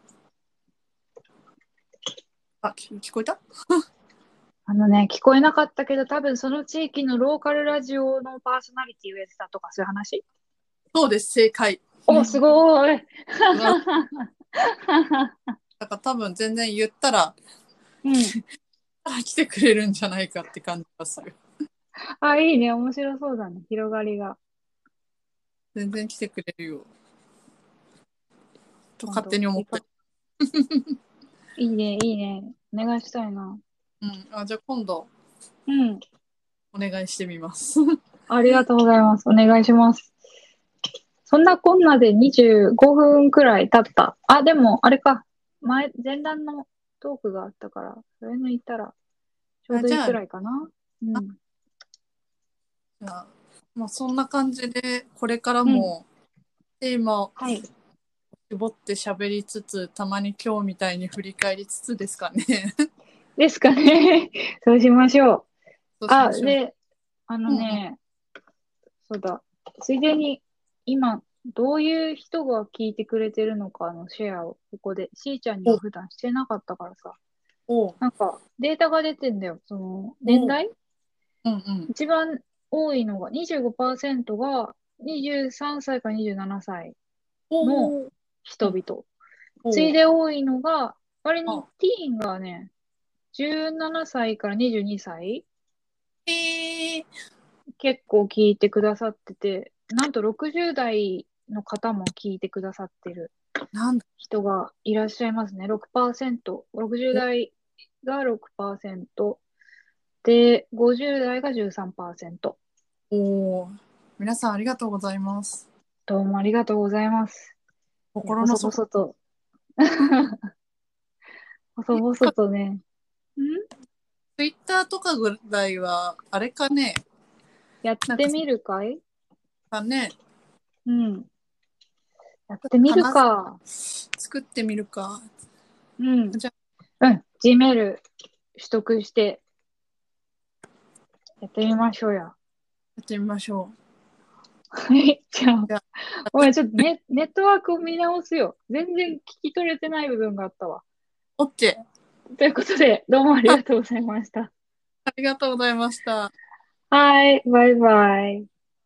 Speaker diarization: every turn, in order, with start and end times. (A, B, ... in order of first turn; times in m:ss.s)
0:02.6-0:03.8 A
0:04.7-0:10.2 B
0:10.9-0:12.4 A
0:12.1-0:15.4 B
0:13.5-0:13.8 A
0:15.8-0:17.4 A
0:18.0-0:18.4 B
0:19.0-0:21.4 A
0:22.2-0:24.4 B
0:25.8-0:26.9 A
0:29.0-0:29.8 A
0:29.0-0:29.8 B
0:30.4-0:31.0 A
0:31.6-0:33.6 B
0:34.0-0:35.1 A
0:35.7-0:36.0 B
0:36.7-0:37.8 A
0:38.3-0:40.1 B
0:41.3-0:49.0 B
0:49.7-0:51.4 B
0:49.7-0:50.2 A
0:53.0-0:56.1 A
0:55.7-0:55.9 B
0:56.8-0:57.4 A
0:57.4-0:57.7 B
0:58.4-1:02.8 A
1:03.4-1:05.5 B
1:06.0-1:06.6 A
1:06.1-1:06.8 B
1:07.3-1:08.0 B
1:07.5-1:07.8 A
1:09.1-1:17.2 B
1:17.7-1:18.0 A
1:18.0-1:20.7 B
1:20.3-1:20.6 A
1:21.4-1:21.9 A
1:21.9-1:27.0 B
1:27.5-1:28.1 A
1:27.6-1:29.1 B
1:29.6-1:29.9 A
1:29.7-1:32.7 B
1:33.3-1:35.4 B
1:36.3-1:37.1 A
1:37.8-1:43.3 B
1:43.7-1:44.0 A
1:44.2-1:49.4 B
1:50.2-1:52.6 B
1:53.1-1:55.7 A
1:56.1-1:57.5 B
1:58.1-1:58.7 A
1:58.2-1:59.2 B
1:59.8-2:00.5 B
2:01.8-2:02.8 B
2:01.9-2:02.3 A
2:03.4-2:03.6 B
2:04.4-2:07.0 A
2:07.8-2:09.0 B
2:08.1-2:08.4 A
2:09.7-2:10.1 A
2:10.9-2:11.3 B
2:12.5-2:13.6 B
2:12.8-2:13.2 A
2:14.2-2:15.2 A
2:16.0-2:16.4 B
2:17.0-2:18.0 B
2:18.6-2:19.4 B
2:21.4-2:22.4 B
2:23.0-2:23.8 A
2:24.8-2:30.8 B
2:26.3-2:26.8 A
2:31.4-2:31.8 A
2:32.4-2:34.5 B
2:35.1-2:36.3 A
2:36.9-2:38.5 B